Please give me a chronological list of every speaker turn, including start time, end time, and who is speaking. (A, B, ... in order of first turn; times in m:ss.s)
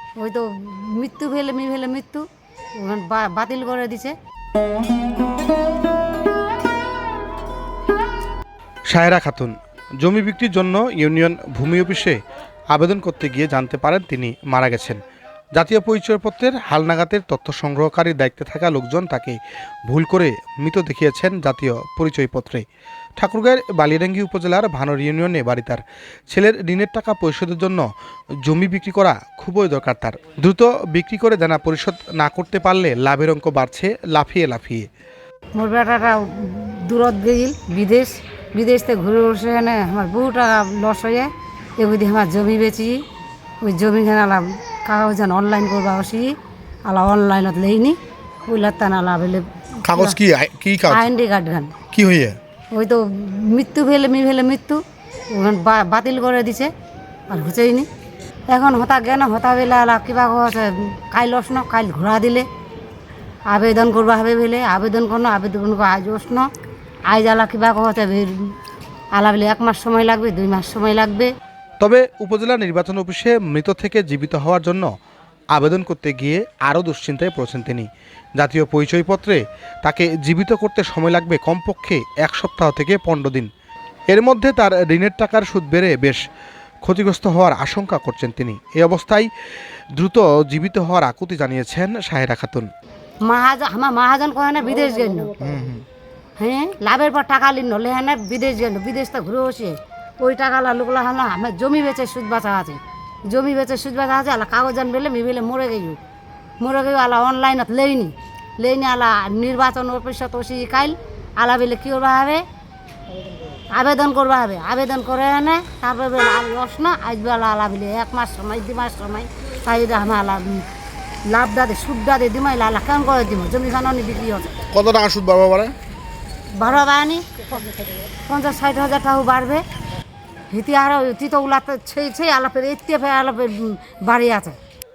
0:00.2-0:02.2 A
0:02.8-0:04.2 A
0:08.9-0:12.2 B
0:12.7-0:15.0 B
0:15.6-0:19.4 B
0:19.9-0:22.6 B
0:23.2-0:27.8 B
0:28.5-0:34.9 B
0:35.6-0:43.0 A
0:43.6-0:46.4 A
0:46.9-0:50.2 A
0:49.8-0:51.1 B
0:50.9-0:51.8 A
0:51.9-0:52.4 B
0:52.7-0:56.7 A
0:57.3-0:57.9 A
0:58.5-1:02.5 A
1:03.5-1:06.5 A
1:07.1-1:08.5 A
1:09.2-1:11.3 A
1:11.8-1:14.9 B
1:15.5-1:23.5 B
1:24.1-1:26.2 B
1:26.8-1:29.3 B
1:30.0-1:32.7 B
1:33.3-1:35.4 A
1:35.4-1:35.8 B
1:36.4-1:46.0 A
1:46.6-1:52.4 A
1:53.7-2:00.7 A
2:01.3-2:04.6 A
2:04.7-2:05.7 B
2:06.6-2:09.6 A
2:10.5-2:14.6 A